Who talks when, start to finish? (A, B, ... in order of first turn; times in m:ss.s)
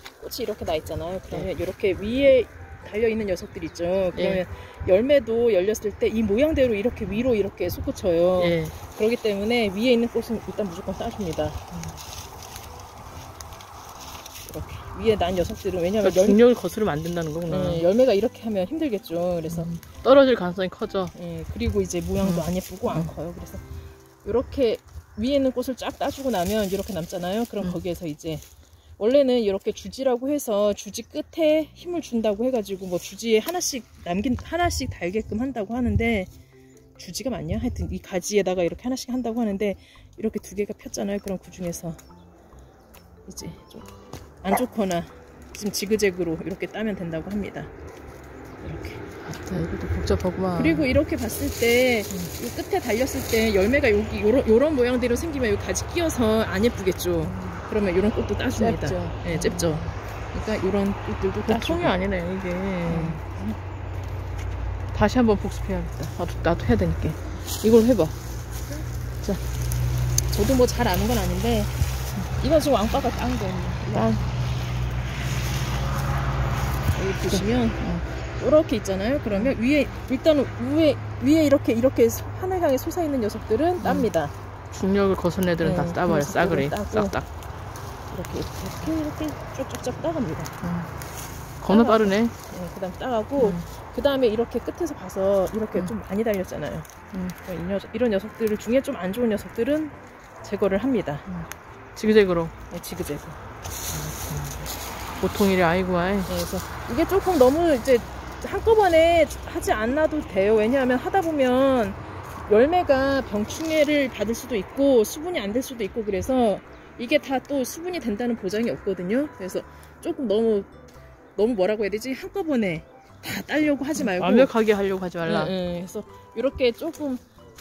0:00.2-0:11.6 A
0:04.1-0:04.4 B
0:08.4-0:08.8 B
0:11.7-0:12.0 B
0:14.5-0:16.4 A
0:16.0-0:17.9 B
0:17.5-0:19.7 A
0:19.5-0:21.1 B
0:21.2-0:23.6 A
0:22.2-0:23.1 B
0:24.2-0:28.4 A
0:29.0-0:36.3 A
0:37.0-0:42.0 A
0:43.3-0:43.9 A
0:44.4-0:47.7 A
0:48.6-0:49.0 A
0:49.2-0:50.9 B
0:50.6-1:02.0 A
0:57.2-0:57.6 B
0:58.5-1:00.0 B
1:01.5-1:03.2 B
1:02.8-1:03.6 A
1:04.9-1:08.2 B
1:10.3-1:11.8 A
1:12.4-1:14.2 A
1:13.9-1:14.2 B
1:16.9-1:17.8 A
1:17.3-1:18.1 B
1:18.4-1:24.3 A
1:23.8-1:24.1 B
1:24.7-1:27.3 B
1:25.6-1:27.2 A
1:28.1-1:30.5 A
1:30.6-1:30.9 B
1:31.6-1:32.4 B
1:31.7-1:41.3 A
1:33.4-1:33.7 B
1:41.3-1:42.5 B
1:42.7-1:43.4 A
1:43.9-1:46.3 B
1:46.3-2:00.7 A
2:01.4-2:04.5 A
2:04.0-2:05.5 B
2:05.2-2:07.2 A